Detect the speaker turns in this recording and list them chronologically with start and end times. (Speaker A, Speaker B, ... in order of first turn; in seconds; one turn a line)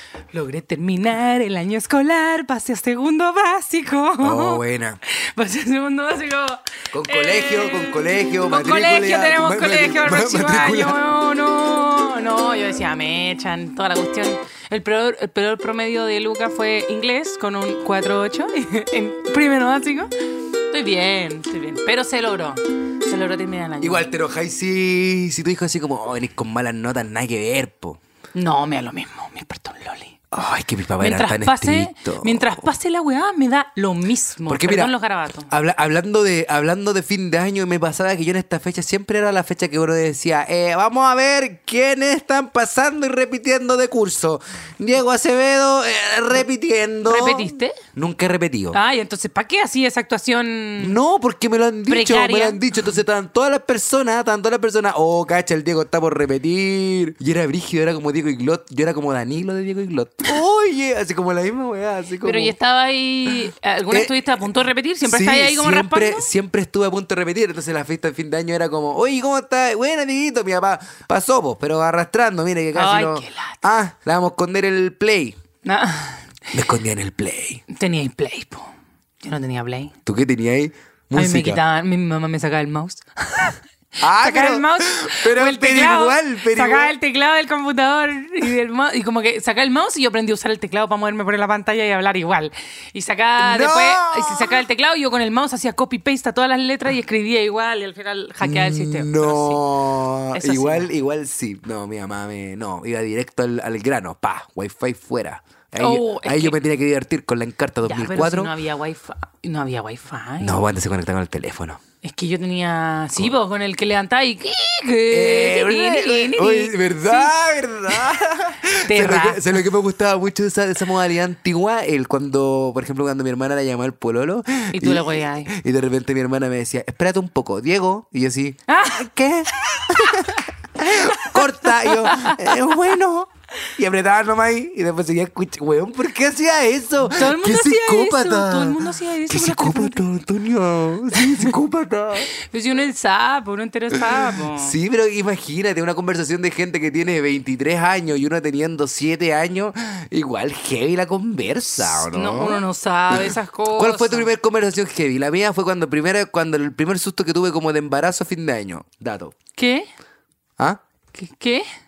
Speaker A: 0.3-20.1
Speaker B: 4.2-5.0
Speaker B: 6.9-11.0
Speaker A: 20.7-24.1
Speaker B: 23.8-28.0
Speaker A: 28.3-30.2
Speaker B: 30.3-32.7
Speaker A: 31.0-35.5
Speaker B: 34.5-34.9
Speaker B: 35.5-48.8
Speaker A: 47.0-47.8
Speaker A: 48.7-51.0
Speaker B: 50.8-62.5
Speaker A: 51.9-52.6
Speaker A: 62.2-66.3
Speaker B: 63.9-64.3
Speaker B: 65.0-75.4
Speaker A: 72.7-73.6
Speaker A: 75.6-76.3
Speaker B: 76.5-77.6
Speaker A: 77.7-79.9
Speaker B: 80.0-81.6
Speaker A: 81.1-99.6
Speaker B: 84.0-86.9
Speaker B: 93.4-94.6
Speaker B: 98.4-108.5
Speaker A: 100.3-100.9
Speaker A: 105.8-106.6
Speaker A: 107.8-110.6
Speaker B: 110.4-111.8
Speaker A: 112.0-117.3
Speaker B: 115.1-142.3
Speaker A: 117.9-118.1
Speaker A: 118.9-119.6
Speaker A: 124.7-125.5
Speaker A: 128.7-132.7
Speaker A: 137.1-140.1
Speaker A: 141.1-141.6
Speaker A: 142.3-144.7
Speaker B: 143.9-159.3
Speaker A: 151.8-154.3
Speaker A: 159.5-159.9
Speaker A: 161.1-161.7